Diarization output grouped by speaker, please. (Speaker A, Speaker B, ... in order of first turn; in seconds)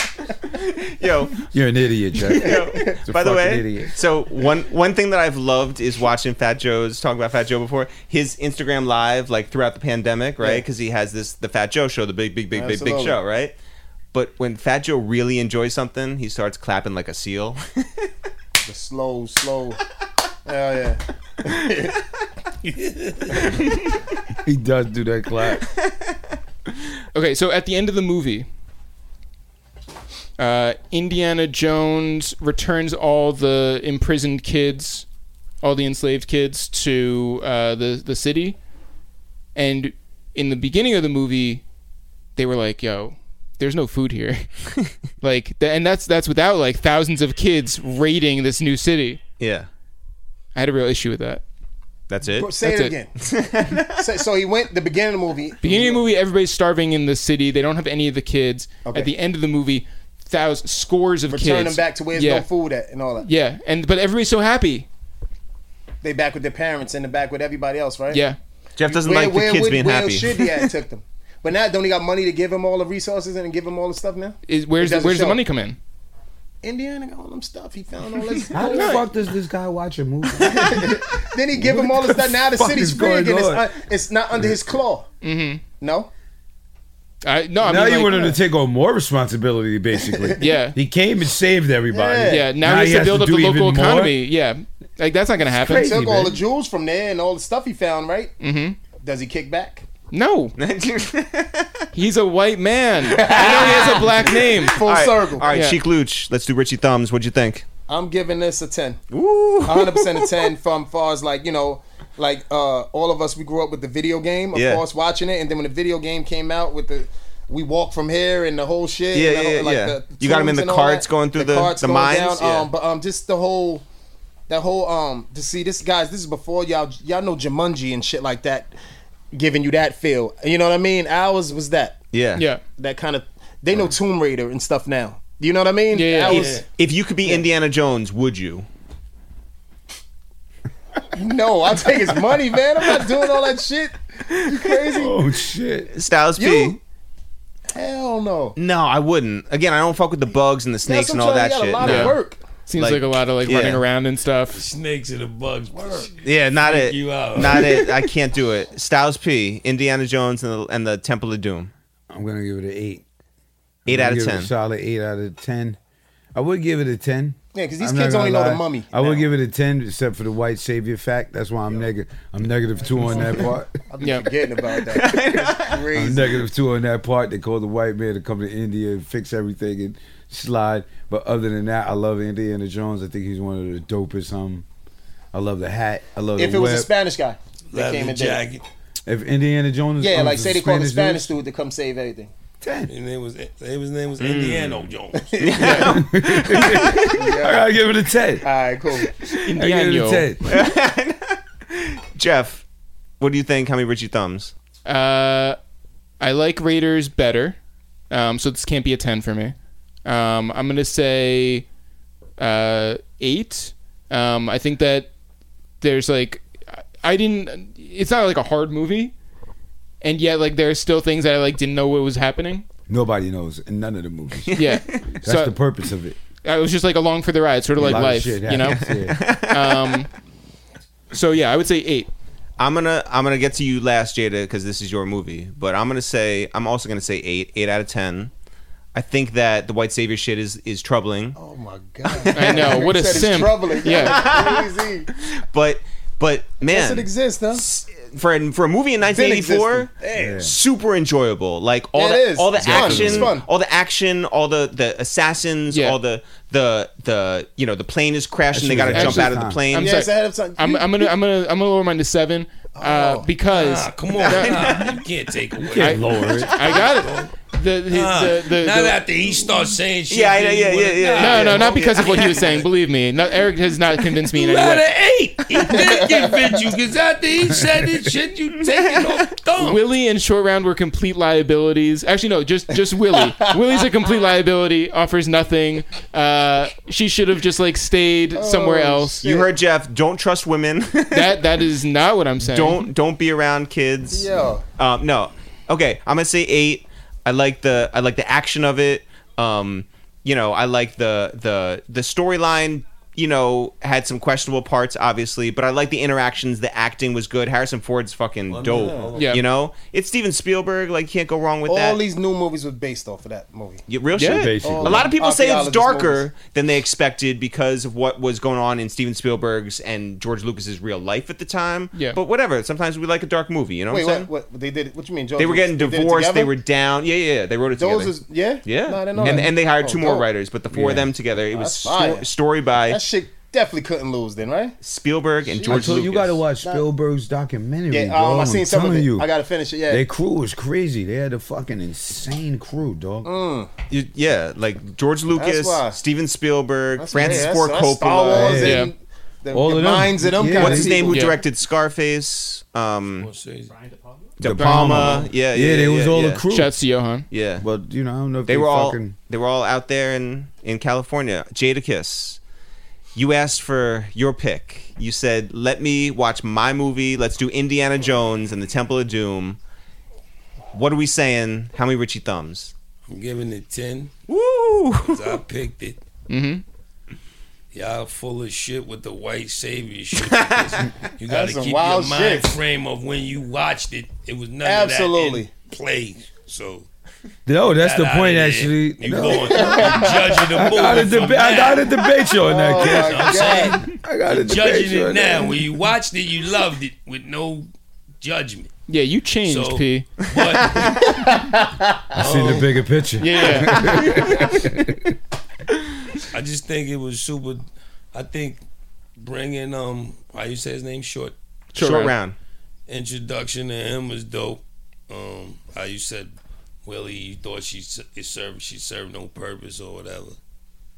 Speaker A: 0.5-1.4, 2.3-13.6, 14.1-18.1, 49.4-49.7, 52.1-52.5, 53.2-54.0, 68.8-70.7, 100.6-101.8, 103.3-107.7, 109.1-110.4, 114.5-114.8, 119.1-122.7, 132.1-132.5, 136.8-138.7, 145.9-146.8, 148.6-152.2, 152.8-153.8, 156.2-161.7, 163.9-164.5, 174.9-175.8, 194.2-197.2, 200.5-202.7, 203.2-204.5, 224.5-225.1, 228.6-230.0, 232.6-238.3, 238.9-241.4, 242.1-260.0, 270.1-272.7, 289.2-291.6, 292.4-312.0, 313.9-324.3, 325.4-333.0, 334.8-336.4, 343.9-348.8, 350.5-353.3, 354.4-356.4, 357.3-357.6, 358.5-362.4, 363.1-369.6, 370.7-372.7, 374.3-375.4, 380.2-380.9, 403.7-404.2, 411.8-412.4
Speaker B: 1.5-4.0, 24.4-25.7, 78.5-83.7, 87.6-94.2, 95.5-96.4, 144.6-145.9, 162.1-163.0, 163.9-165.8, 166.3-173.8, 175.9-184.7, 185.3-186.9, 189.1-191.3, 192.6-192.9, 195.7-200.7, 222.9-224.5, 225.2-226.2, 227.8-229.2, 250.1-250.5, 252.6-253.3, 258.5-259.6, 265.6-266.5, 277.5-278.1, 314.3-315.1, 329.2-329.5, 330.7-331.1, 335.6-339.3, 339.9-343.3, 348.3-348.9, 349.5-350.9, 354.4-356.8, 357.6-359.1, 387.5-395.6, 402.1-405.1
Speaker C: 2.4-2.9, 10.4-10.7, 12.5-13.2, 18.6-19.8, 20.5-22.0, 52.4-53.1, 54.0-56.0, 58.9-59.1, 61.3-63.3, 66.0-68.2, 68.9-75.4, 76.6-79.0, 80.4-85.1, 85.8-86.1, 90.0-90.5, 91.9-92.5, 95.7-98.4, 98.9-99.9, 103.0-105.5, 107.9-109.0, 109.7-123.8, 124.5-128.7, 129.3-132.0, 132.8-136.7, 141.1-145.2, 146.4-146.8, 147.7-148.6, 150.8-152.4, 167.5-169.3, 173.1-176.4, 186.4-188.4, 190.0-192.3, 195.2-195.9, 197.0-197.7, 198.4-199.1, 241.4-245.1, 246.7-247.6, 249.1-250.4, 251.9-253.5, 259.8-261.1, 262.7-263.3, 275.8-276.3, 288.3-289.5, 294.1-294.6, 308.7-309.2, 311.7-313.9, 314.6-316.3, 323.9-326.6, 327.8-330.3, 331.5-332.3, 332.8-334.8, 335.4-336.1, 337.9-340.1, 343.2-343.7, 345.4-346.0, 347.0-351.3, 381.3-382.6, 384.6-385.5, 389.1-390.6, 392.4-393.8
Speaker D: 22.6-23.4, 136.3-136.6, 154.5-158.1, 187.7-188.6, 192.9-195.6, 263.5-272.7, 274.3-279.8, 308.5-309.4, 353.2-353.8, 373.1-374.1, 375.0-376.0, 377.7-386.9, 387.6-397.7, 398.2-398.7, 399.4-401.2, 402.2-402.7, 406.3-408.6, 409.2-411.4, 412.9-420.4
Speaker E: 27.1-28.5, 30.4-35.1, 35.6-38.6, 39.5-41.6, 42.4-49.2, 50.5-51.4, 52.6-53.0, 55.6-62.5, 63.2-64.9, 68.1-68.4, 74.5-75.8, 78.6-79.0, 85.2-85.7, 87.2-88.4, 90.4-90.8, 92.3-96.0, 98.4-98.8, 100.1-100.5, 101.9-104.8, 105.5-105.8, 132.4-132.6, 135.9-136.5, 151.8-154.6, 174.0-174.3, 195.6-195.9, 199.4-200.3, 204.8-205.6, 206.2-207.6, 208.1-211.7, 212.4-215.1, 215.8-219.1, 220.0-222.7, 224.5-225.6, 226.4-230.1, 231.1-232.1, 242.3-244.4, 252.6-253.2, 255.7-256.0, 258.9-264.9, 265.8-269.0, 271.2-274.9, 279.6-289.2, 291.1-292.9, 309.1-309.4, 314.2-314.6, 321.9-322.2, 348.6-348.9, 351.0-351.4, 354.6-355.3, 356.5-357.3, 376.3-376.6, 398.9-400.2, 403.2-404.5, 411.8-412.1